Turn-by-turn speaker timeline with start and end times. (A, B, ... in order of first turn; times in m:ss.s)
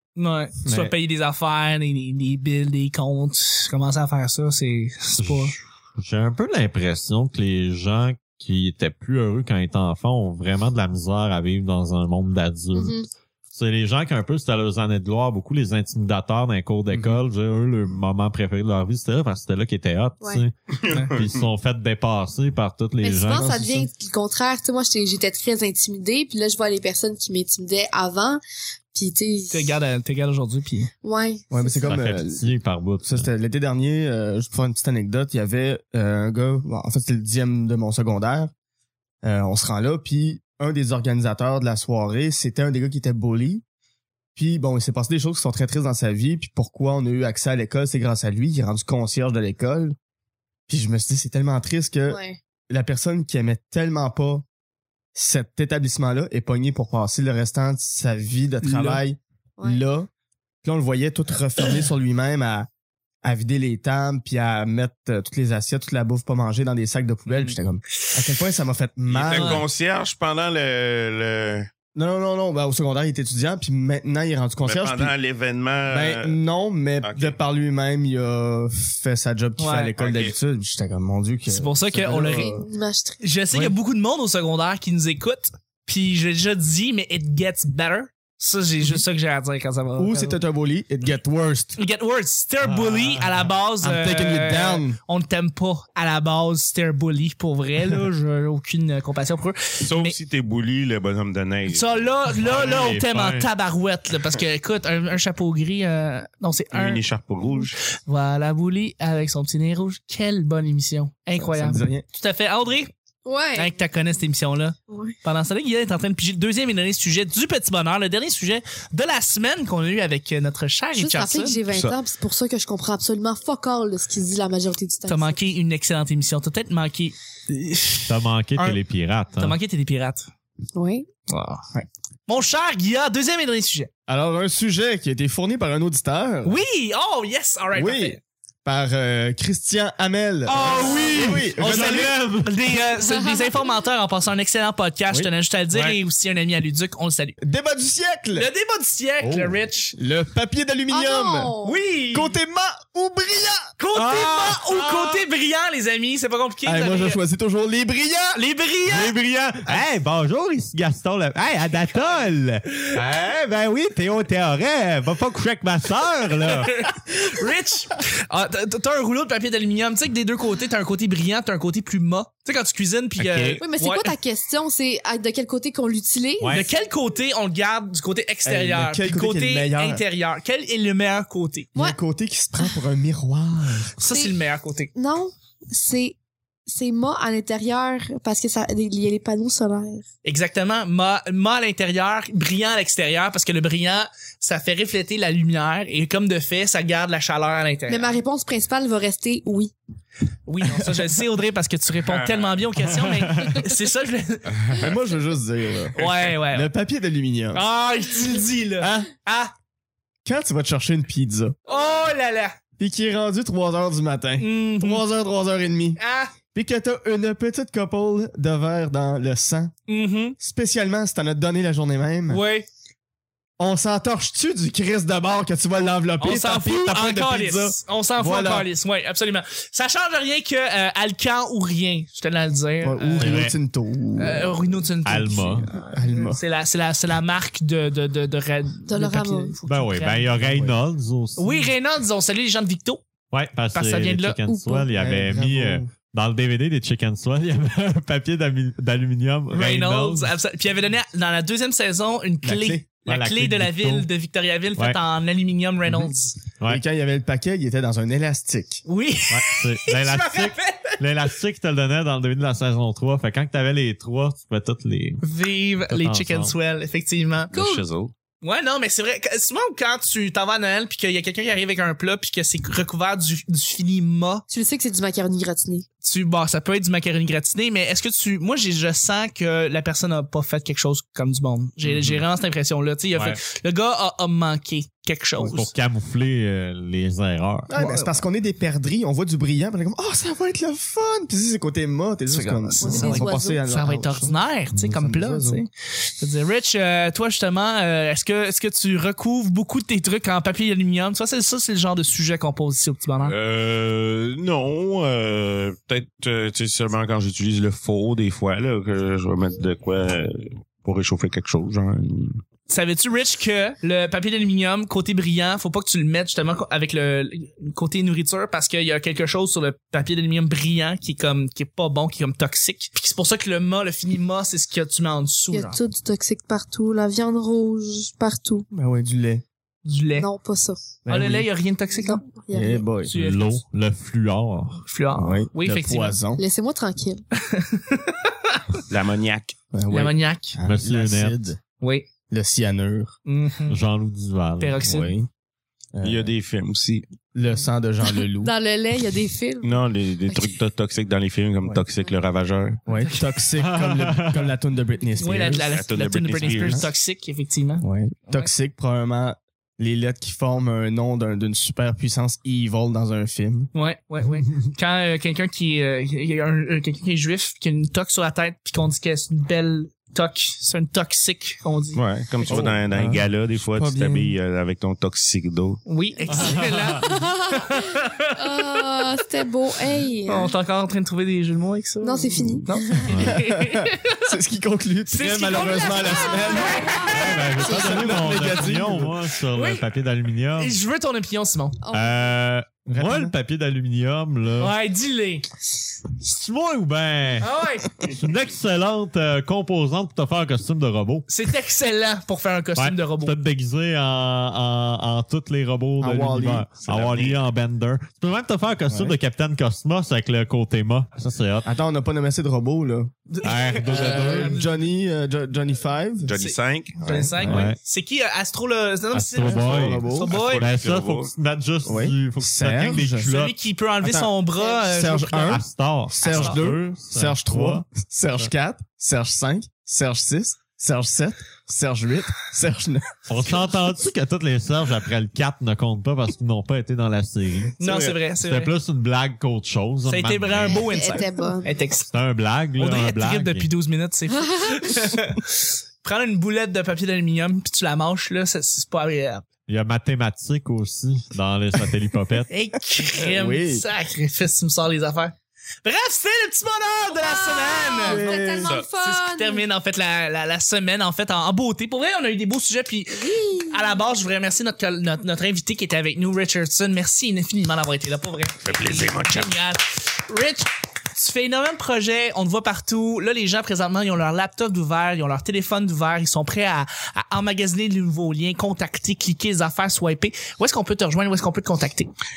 0:00.2-0:05.5 A
0:05.2-0:13.0 B
0:12.8-0:13.1 C
0:13.5-0:23.8 B
0:16.9-0:17.2 D
0:20.8-0:21.4 E
0:20.9-0:21.2 A
0:23.0-0:28.4 C
0:23.4-0:23.7 D
0:28.9-0:29.8 C
0:29.5-0:30.9 A
0:31.0-0:32.0 C
0:31.5-0:32.5 D
0:31.8-0:33.3 B
0:33.0-0:38.5 D
0:39.2-0:43.6 D
0:44.4-0:50.0 D
0:50.7-0:54.4 D
0:52.1-0:52.4 C
0:55.2-1:00.1 D
0:58.6-0:59.0 A
1:00.6-1:02.7 D
1:03.2-1:09.6 D
1:07.3-1:07.6 A
1:09.1-1:11.7 E
1:09.3-1:09.6 A
1:12.0-1:15.1 D
1:14.6-1:16.4 E
1:15.9-1:22.7 D
1:17.0-1:17.4 E
1:19.6-1:19.9 A
1:20.0-1:20.4 E
1:21.5-1:22.5 A
1:22.3-1:23.2 C
1:23.2-1:30.4 A
1:30.0-1:31.8 D
1:31.8-1:40.2 A
1:32.6-1:33.5 B
1:33.8-1:35.0 D
1:39.8-1:41.9 E
1:41.7-1:47.0 A
1:42.4-1:43.5 B
1:46.7-1:47.8 E
1:48.0-1:52.9 A
1:51.4-1:52.0 D
1:53.2-1:53.8 C
1:53.6-2:01.6 A
1:54.9-1:55.2 C
2:01.0-2:05.4 C
2:05.1-2:08.8 A
2:08.1-2:09.6 B
2:09.3-2:10.3 A
2:10.8-2:11.1 C
2:11.3-2:11.6 A
2:12.3-2:13.9 A
2:14.1-2:16.6 D
2:16.4-2:18.2 A
2:17.7-2:22.2 D
2:20.5-2:27.4 A
2:20.5-2:22.5 B
2:20.8-2:21.2 C
2:23.0-2:23.7 C
2:25.7-2:26.0 B
2:27.4-2:28.5 D
2:28.4-2:30.0 A
2:30.0-2:31.5 D
2:30.9-2:31.8 C
2:31.6-2:32.4 A
2:32.1-2:33.7 D
2:33.8-2:37.2 A
2:34.0-2:35.2 B
2:36.6-2:38.4 D
2:38.4-2:39.1 A
2:38.9-2:46.8 B
2:46.4-2:54.1 A
2:53.2-2:53.6 E
2:53.6-2:56.7 C
2:56.4-2:56.7 B
2:56.5-3:01.7 A
2:58.4-3:00.0 D
3:01.8-3:04.0 D
3:04.0-3:04.9 A
3:04.1-3:04.4 C
3:05.0-3:06.2 C
3:06.7-3:10.1 C
3:10.2-3:18.1 A
3:17.9-3:19.7 C
3:20.5-3:24.8 A
3:22.1-3:22.5 E
3:23.3-3:23.6 B
3:24.5-3:24.9 E
3:24.8-3:26.0 D
3:26.0-3:26.3 E
3:26.0-3:26.7 A
3:26.5-3:27.6 D
3:27.5-3:29.5 A
3:28.8-3:29.1 D
3:30.2-3:31.6 D
3:31.7-3:32.6 A
3:32.8-3:36.0 D
3:34.4-3:35.0 A
3:36.0-3:36.3 A
3:36.5-3:39.7 D
3:39.9-3:40.4 A
3:40.4-3:42.4 D
3:42.3-3:42.7 A
3:43.6-3:48.7 D
3:46.2-3:53.5 A
3:52.8-3:54.6 D
3:53.2-3:53.6 B
3:54.2-4:00.4 A
3:55.0-3:55.7 B
3:55.9-3:56.4 D
3:58.9-3:59.5 C
3:59.7-4:01.7 B
4:00.4-4:00.8 D
4:01.4-4:03.0 A
4:03.3-4:10.3 B
4:03.7-4:04.4 A
4:04.5-4:04.9 C
4:04.9-4:05.9 D
4:09.5-4:16.4 A
4:12.4-4:12.8 D
4:13.1-4:14.1 B
4:16.7-4:18.8 D
4:18.9-4:21.0 A
4:19.3-4:25.2 B
4:25.2-4:27.5 A
4:25.9-4:26.6 B
4:27.5-4:28.1 E
4:27.6-4:27.8 C
4:28.4-4:34.4 A
4:34.5-4:35.9 C
4:36.0-4:45.7 A
4:43.1-4:43.4 B
4:45.4-4:47.7 B
4:47.7-4:55.6 D
4:47.7-4:48.2 A
4:52.3-5:03.4 A
4:52.8-4:53.6 C
5:03.2-5:12.4 E
5:12.7-5:25.8 A
5:25.5-5:28.7 C
5:28.7-5:29.4 D
5:29.8-5:30.3 A
5:30.2-5:30.8 C
5:31.0-5:31.5 D
5:31.1-5:32.2 A
5:32.0-5:32.9 C
5:32.5-5:33.1 D
5:33.0-5:33.6 A
5:33.1-5:34.8 B
5:34.9-5:36.2 A
5:35.2-5:36.4 D
5:36.4-5:37.2 C
5:37.4-5:38.8 A
5:38.9-5:39.6 E
5:39.7-5:41.6 D
5:39.9-5:40.6 A
5:40.6-5:41.4 B
5:41.8-5:42.1 A
5:42.3-5:43.1 D
5:43.3-5:43.8 A
5:43.7-5:44.8 B
5:44.6-5:45.1 A
5:44.8-5:45.3 D
5:46.0-5:46.3 D
5:46.0-5:47.0 E
5:47.3-5:48.5 D
5:48.4-5:50.6 C
5:49.6-5:52.8 E
5:52.9-5:55.7 D
5:52.9-5:53.2 A
5:53.6-5:54.5 B
5:55.2-5:58.5 A
5:55.6-5:56.9 E
5:56.5-5:56.9 D
5:57.8-6:03.7 D
6:03.7-6:12.0 A
6:11.9-6:15.8 E
6:12.5-6:14.4 D
6:15.9-6:19.1 A
6:16.2-6:20.5 C
6:16.3-6:17.0 B
6:20.3-6:24.3 A
6:22.0-6:23.2 C
6:23.1-6:23.4 B
6:23.2-6:29.2 D
6:25.1-6:27.2 A
6:26.0-6:28.1 C
6:27.1-6:30.8 B
6:29.5-6:29.9 A
6:30.6-6:31.8 A
6:31.8-6:32.4 C
6:31.9-6:34.8 B
6:32.9-6:33.4 D
6:34.6-6:35.5 A
6:36.2-6:41.3 B
6:37.4-6:37.9 A
6:41.3-6:43.4 A
6:42.8-6:51.7 B
6:46.0-6:46.7 D
6:46.8-6:47.4 E
6:48.9-6:49.2 D
6:51.6-6:53.1 D
6:53.3-6:54.7 A
6:53.4-6:54.6 B
6:53.9-6:56.4 D
6:56.2-6:57.3 E
6:56.4-7:00.6 A
6:57.4-6:57.7 D
6:57.4-6:57.8 B
6:59.1-7:03.6 B
6:59.4-7:00.3 D
7:00.2-7:01.3 E
7:01.8-7:03.3 D
7:03.2-7:05.6 A
7:04.0-7:13.1 D
7:05.4-7:07.8 B
7:06.2-7:06.6 A
7:13.3-7:17.8 B
7:17.8-7:18.7 A
7:17.8-7:18.2 D
7:18.4-7:21.1 B
7:20.0-7:22.1 A
7:20.8-7:21.7 C
7:22.1-7:23.7 B
7:22.8-7:29.4 A
7:29.7-7:32.5 B
7:32.5-8:02.1 A
7:33.2-7:33.8 D
7:37.1-7:39.6 C
7:38.0-7:38.7 D
7:43.1-7:44.0 C
7:48.6-7:49.6 E